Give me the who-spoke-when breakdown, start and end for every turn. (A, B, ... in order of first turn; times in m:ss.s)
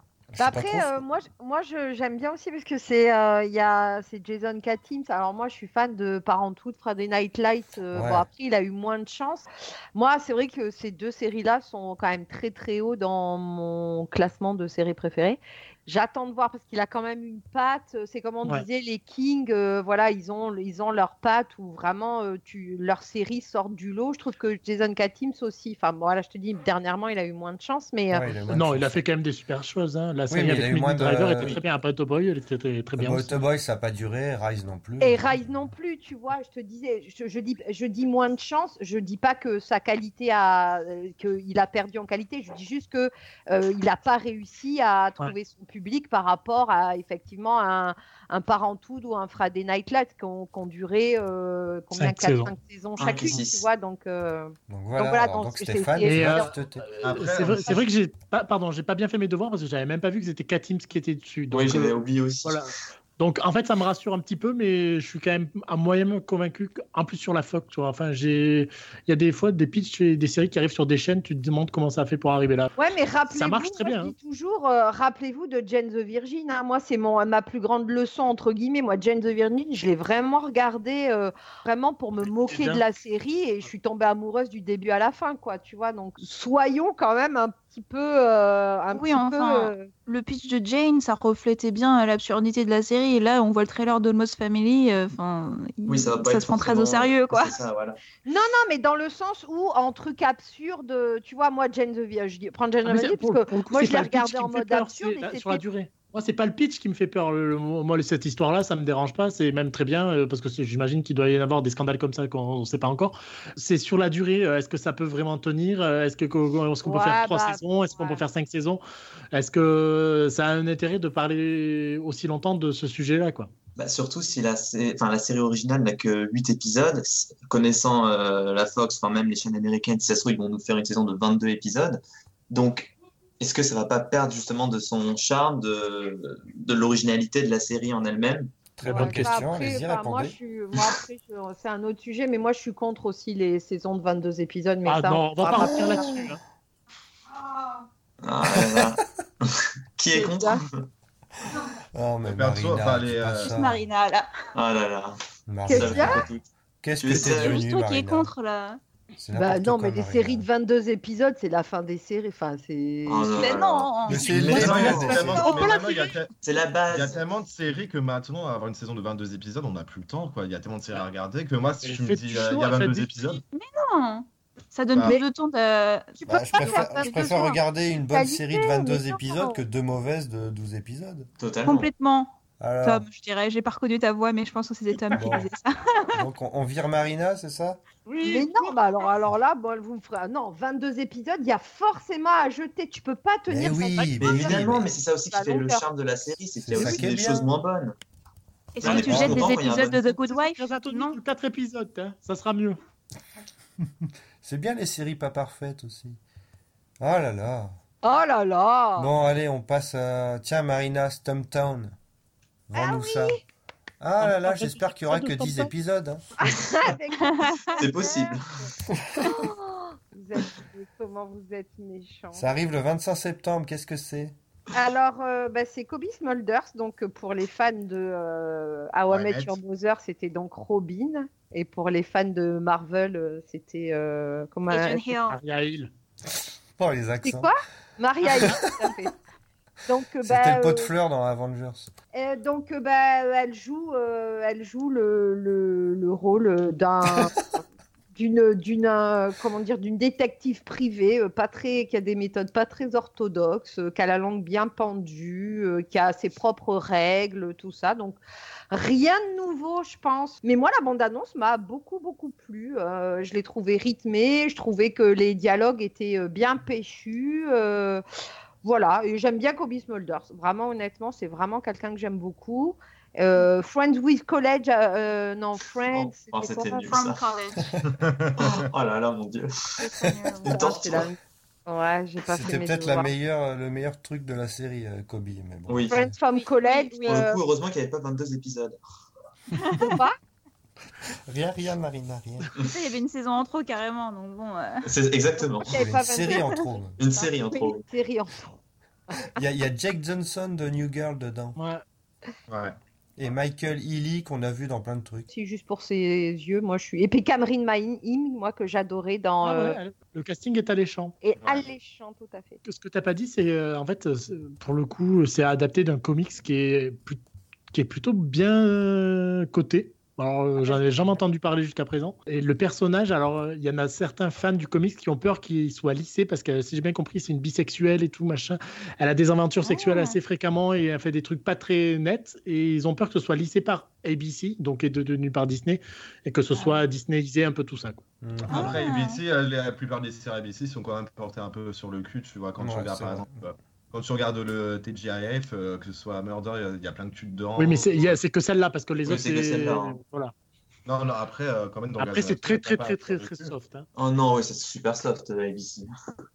0:00.3-0:01.0 A
0:00.4-0:28.3 B
0:07.9-0:08.3 A
0:28.1-0:29.0 A
0:28.5-0:33.4 C
0:30.3-0:31.6 A
0:33.0-0:35.2 A
0:35.0-0:56.6 B
0:52.0-0:52.5 C
0:53.0-0:53.7 D
0:54.7-0:56.9 A
0:56.0-1:12.7 C
0:57.0-0:57.8 E
1:01.5-1:02.7 D
1:12.8-1:29.9 B
1:13.3-1:14.1 C
1:22.4-1:22.8 C
1:28.9-1:37.6 F
1:35.9-1:38.0 D
1:38.2-1:45.6 B
1:42.8-1:58.8 C
1:56.8-1:58.2 B
1:59.3-2:03.5 C
2:03.8-2:18.5 D
2:18.8-2:20.4 A
2:18.8-2:19.4 C
2:18.9-2:26.3 B
2:24.9-2:26.4 C
2:28.2-2:30.9 D
2:30.1-2:30.6 B
2:31.9-2:33.8 A
2:32.3-2:33.5 E
2:33.4-2:34.3 F
2:34.6-2:35.2 D
2:35.5-2:36.3 A
2:35.7-2:36.3 B
2:35.7-2:36.5 D
2:36.8-2:38.3 A
2:37.0-2:37.6 D
2:37.1-2:38.8 F
2:39.2-2:40.5 A
2:39.4-2:43.6 B
2:43.1-2:45.3 D
2:43.4-2:46.0 F
2:44.1-2:45.5 A
2:44.3-2:45.9 C
2:44.3-2:46.3 E
2:46.4-2:47.2 D
2:46.9-2:53.4 E
2:51.8-2:53.4 C
2:53.5-2:57.2 F
2:56.2-2:57.6 B
2:56.3-3:01.3 A
2:58.1-2:59.6 B
3:01.4-3:01.9 D
3:01.7-3:06.1 F
3:02.6-3:03.1 A
3:05.1-3:05.5 A
3:06.1-3:07.8 A
3:08.1-3:08.5 C
3:08.2-3:15.8 B
3:13.5-3:14.8 A
3:14.2-3:18.0 D
3:16.6-3:17.5 A
3:18.8-3:21.2 F
3:18.8-3:20.1 D
3:18.8-3:19.2 C
3:19.1-3:19.5 A
3:20.1-3:22.8 C
3:23.9-3:26.2 A
3:27.0-3:27.8 A
3:28.0-3:29.1 B
3:29.0-3:32.0 A
3:32.7-3:33.4 A
3:32.8-3:33.4 B
3:34.0-3:36.2 A
3:34.2-3:35.7 C
3:36.4-3:38.7 B
3:37.2-3:37.8 F
3:37.8-3:38.6 D
3:38.9-3:39.3 A
3:39.2-3:42.5 B
3:42.3-3:44.4 A
3:44.7-3:55.1 B
3:49.1-3:49.6 E
3:54.7-3:55.4 F
3:55.3-3:55.9 C
3:56.8-3:57.5 A
3:57.2-3:59.1 B
3:58.4-3:58.9 A
3:59.9-4:00.9 B
4:00.2-4:01.9 A
4:02.1-4:07.6 B
4:08.1-4:18.2 B
4:18.7-4:28.0 B
4:28.6-4:36.9 B
4:35.9-4:37.2 D
4:36.8-4:37.7 F
4:38.0-4:38.6 E
4:38.4-4:39.8 D
4:39.8-4:40.7 F
4:40.4-4:43.1 B
4:40.5-4:41.1 D
4:42.3-4:46.2 A
4:45.7-4:46.0 D
4:45.9-4:47.4 B
4:46.3-4:47.3 F
4:47.1-4:48.8 D
4:49.6-4:50.0 F
4:49.8-4:50.2 B
4:51.3-4:52.5 A
4:52.7-4:54.8 F
4:54.8-4:55.8 D
4:55.6-4:58.5 B
4:55.7-4:57.0 A
4:57.0-4:57.8 D
4:59.4-5:01.6 A
5:01.6-5:01.8 C
5:02.5-5:02.8 E
5:03.2-5:05.3 A
5:05.3-5:09.8 B
5:09.4-5:11.2 C
5:11.2-5:12.6 B
5:11.4-5:11.7 E
5:12.6-5:38.0 C
5:20.6-5:21.2 B
5:29.6-5:30.2 F
5:38.2-5:38.8 A
5:38.5-5:48.2 E
5:38.5-5:39.2 F
5:42.6-5:43.5 A
5:47.6-5:50.3 C
5:49.0-5:50.0 D
5:50.9-5:53.5 E
5:52.0-5:53.9 C
5:54.0-5:55.9 D